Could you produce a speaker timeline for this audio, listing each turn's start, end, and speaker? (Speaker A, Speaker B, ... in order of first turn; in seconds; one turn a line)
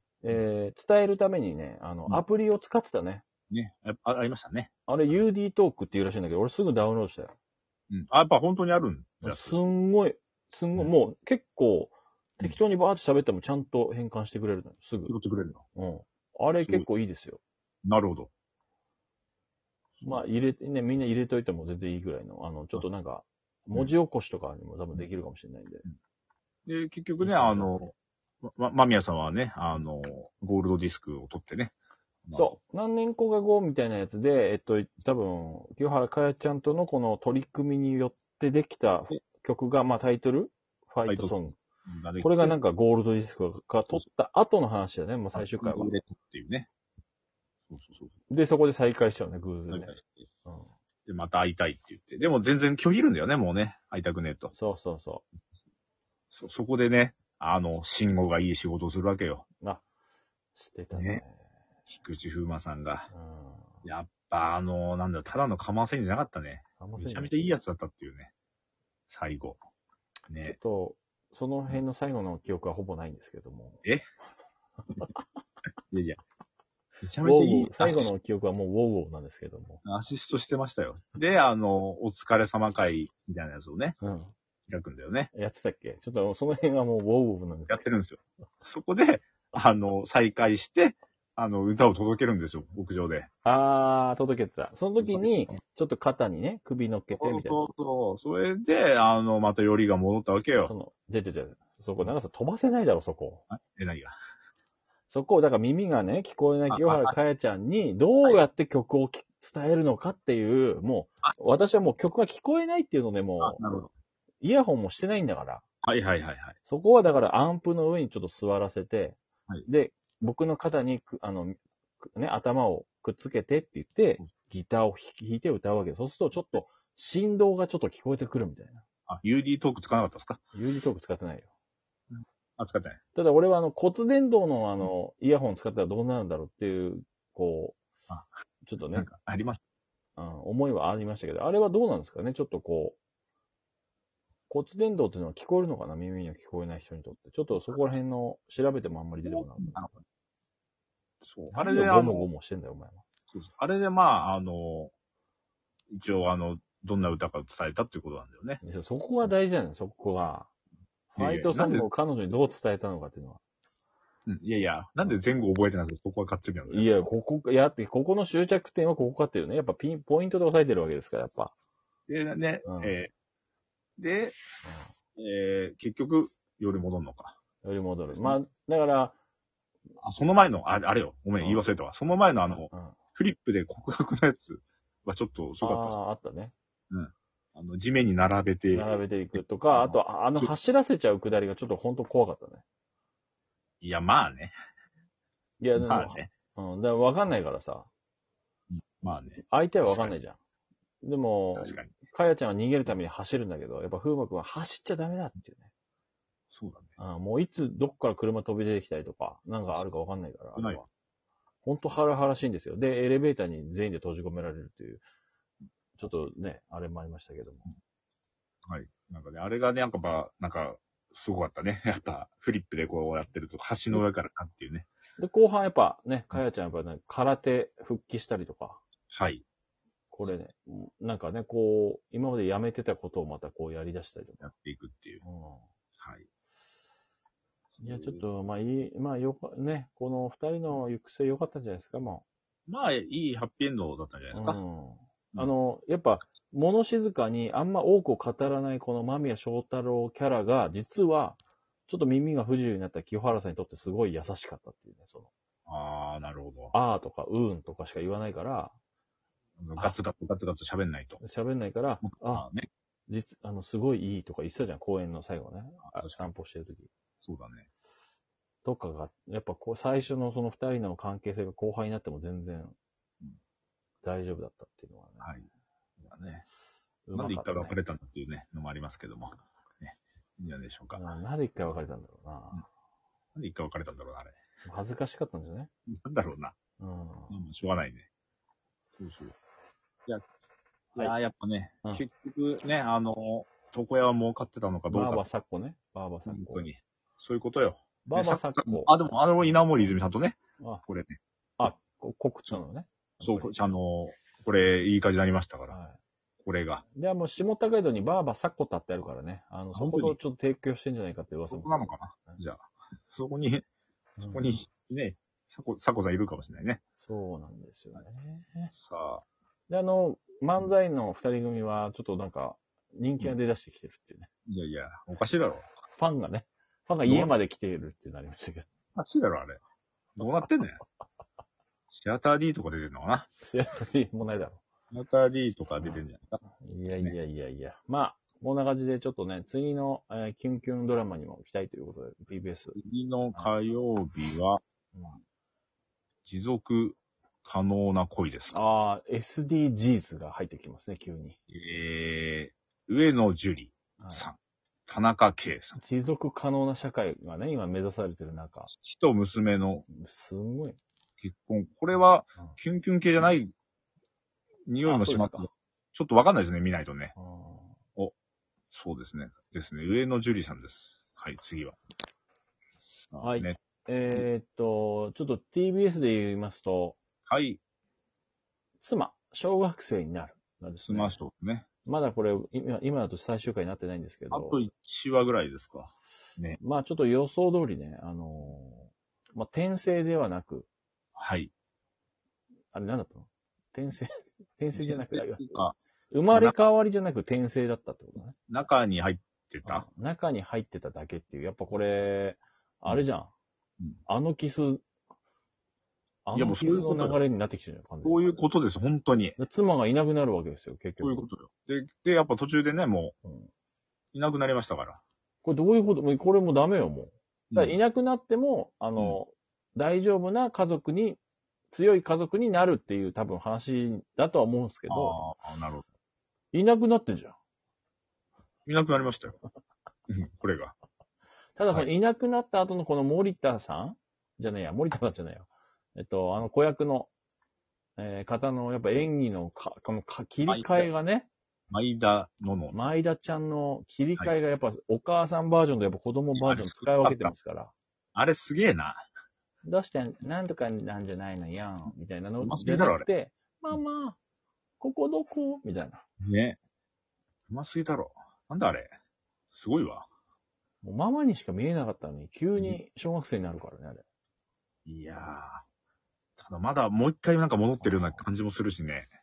Speaker A: 0.2-3.2
Speaker B: 3.5-4.7
Speaker A: 4.9-7.3
Speaker B: 7.9-9.7
Speaker A: 9.2-15.2
Speaker B: 15.1-15.6
Speaker A: 15.8-17.4
Speaker B: 16.6-16.9
Speaker B: 17.8-18.3
Speaker B: 20.0-20.3
Speaker A: 20.0-25.9
Speaker B: 26.7-27.9
Speaker A: 27.2-27.9
Speaker B: 28.4-32.5
Speaker A: 32.3-41.6
Speaker B: 41.1-41.3
Speaker B: 41.9-42.6
Speaker A: 42.2-46.0
Speaker B: 45.3-46.7
Speaker B: 47.7-48.1
Speaker A: 48.3-50.7
Speaker B: 49.7-50.2
Speaker B: 51.1-54.5
Speaker A: 54.5-55.2
Speaker B: 56.3-59.5
Speaker A: 60.6-61.5
Speaker B: 60.9-61.2
Speaker B: 61.9-63.1
Speaker A: 63.1-63.9
Speaker B: 63.8-68.3
Speaker A: 66.8-67.3
Speaker B: 69.1-69.6
Speaker B: 70.3-70.6
Speaker A: 70.5-73.8
Speaker B: 75.9-76.2
Speaker B: 77.0-78.1
Speaker A: 77.2-79.8
Speaker B: 79.8-84.0
Speaker A: 84.0-84.3
Speaker B: 84.7-85.3
Speaker A: 85.3-87.9
Speaker B: 87.7-93.3
Speaker A: 93.4-97.7
Speaker B: 95.0-95.6
Speaker B: 97.1-100.7
Speaker A: 100.6-103.5
Speaker B: 103.5-104.2
Speaker A: 105.1-113.6
Speaker B: 106.7-107.2
Speaker B: 113.4-113.9
Speaker A: 114.4-115.6
Speaker B: 115.8-116.6
Speaker A: 116.7-128.8
Speaker B: 129.1-130.4
Speaker A: 130.5-131.5
Speaker B: 132.1-133.0
Speaker A: 133.2-137.8
Speaker A: 138.6-139.1
Speaker B: 138.9-139.6
Speaker A: 140.2-143.0
Speaker A: 144.5-149.9
Speaker B: 149.2-150.0
Speaker B: 151.2-152.3
Speaker A: 151.5-153.0
Speaker B: 153.3-154.9
Speaker B: 155.9-158.6
Speaker A: 158.6-160.5
Speaker A: 161.1-163.4
Speaker B: 161.2-161.9
Speaker B: 164.3-167.0
Speaker A: 166.7-171.5
Speaker B: 172.1-173.1
Speaker A: 172.7-173.0
Speaker B: 174.0-174.4
Speaker A: 174.6-174.9
Speaker B: 175.2-177.4
Speaker A: 177.6-179.2
Speaker B: 178.1-178.4
Speaker B: 180.0-186.0
Speaker A: 181.4-181.7
Speaker A: 182.7-183.0
Speaker A: 185.6-186.5
Speaker B: 186.9-188.9
Speaker A: 188.7-192.6
Speaker B: 189.7-190.5
Speaker B: 193.8-194.5
Speaker A: 195.6-197.9
Speaker B: 195.8-196.3
Speaker B: 198.7-200.2
Speaker A: 199.4-200.4
Speaker A: 201.0-205.7
Speaker B: 201.6-201.9
Speaker B: 206.5-206.9
Speaker A: 207.0-210.9
Speaker B: 210.6-210.8
Speaker A: 211.6-215.0
Speaker A: 216.0-217.7
Speaker B: 218.7-224.9
Speaker A: 225.2-228.8
Speaker B: 229.1-229.4
Speaker A: 230.1-234.5
Speaker B: 234.4-235.2
Speaker A: 235.2-235.7
Speaker B: 236.0-236.3
Speaker B: 237.8-238.2
Speaker A: 237.8-242.2
Speaker B: 242.7-244.6
Speaker A: 244.3-255.3
Speaker B: 255.7-256.8
Speaker A: 256.7-258.8
Speaker B: 259.6-261.2
Speaker A: 261.2-262.5
Speaker B: 262.0-262.7
Speaker A: 263.1-266.9
Speaker B: 265.9-266.2
Speaker B: 267.2-267.7
Speaker A: 268.6-272.8
Speaker A: 274.0-275.4
Speaker B: 275.2-275.5
Speaker B: 276.0-276.4
Speaker A: 277.1-277.8
Speaker B: 277.1-281.1
Speaker A: 280.9-282.7
Speaker B: 283.4-284.4
Speaker A: 284.6-285.7
Speaker B: 285.9-286.6
Speaker A: 286.8-287.4
Speaker B: 287.3-288.1
Speaker B: 289.0-289.4
Speaker B: 290.9-295.2
Speaker A: 294.9-296.6
Speaker B: 296.3-301.7
Speaker A: 298.1-299.0
Speaker A: 301.6-303.5
Speaker B: 303.2-305.8
Speaker A: 305.7-306.0
Speaker B: 306.4-306.8
Speaker A: 306.9-312.4
Speaker B: 309.7-310.2
Speaker B: 311.5-313.6
Speaker A: 314.2-314.6
Speaker B: 314.3-316.8
Speaker A: 317.0-318.7
Speaker B: 318.7-319.2
Speaker A: 319.7-324.3
Speaker B: 324.5-325.7
Speaker A: 325.9-328.7
Speaker B: 327.1-327.3
Speaker B: 329.0-329.6
Speaker B: 330.2-330.8
Speaker B: 331.9-333.3
Speaker A: 333.4-334.6
Speaker B: 334.9-336.4
Speaker A: 336.6-342.8
Speaker B: 342.8-344.6
Speaker A: 344.9-345.2
Speaker B: 346.3-348.6
Speaker A: 348.5-351.4
Speaker B: 351.5-355.8
Speaker A: 354.0-354.3
Speaker A: 355.8-358.7
Speaker B: 358.7-359.9
Speaker A: 359.9-360.8
Speaker B: 361.2-363.5
Speaker B: 364.7-367.1
Speaker A: 364.8-365.5
Speaker A: 367.2-367.8
Speaker B: 368.7-371.8
Speaker B: 372.8-374.3
Speaker A: 373.2-377.0
Speaker B: 377.3-377.6
Speaker A: 378.8-381.2
Speaker B: 380.9-381.7
Speaker A: 381.9-384.6
Speaker B: 384.3-386.6
Speaker A: 386.6-390.7
Speaker B: 391.2-391.5
Speaker A: 392.7-398.4
Speaker B: 394.7-395.8
Speaker B: 396.3-396.6
Speaker B: 398.5-399.9
Speaker A: 399.6-403.3
Speaker A: 404.1-404.9
Speaker A: 406.2-408.4
Speaker B: 406.4-407.2
Speaker B: 408.0-409.4
Speaker A: 409.4-411.2
Speaker B: 411.0-413.1
Speaker A: 413.2-413.5
Speaker B: 414.1-415.0
Speaker A: 415.4-421.2
Speaker B: 417.5-417.8
Speaker A: 421.7-425.2
Speaker B: 424.9-425.9
Speaker A: 426.5-427.4
Speaker B: 428.7-429.4
Speaker B: 430.1-430.8
Speaker A: 431.6-437.1
Speaker A: 438.0-441.3
Speaker B: 440.5-440.9
Speaker B: 441.7-442.8
Speaker A: 442.7-447.7
Speaker B: 446.4-447.3
Speaker B: 448.1-449.0
Speaker A: 449.6-454.2
Speaker B: 452.4-453.1
Speaker A: 454.8-456.0
Speaker B: 456.2-456.6
Speaker B: 457.5-458.9
Speaker B: 459.5-460.1
Speaker A: 460.8-464.1
Speaker B: 464.9-465.6
Speaker B: 466.4-469.1
Speaker A: 467.8-468.2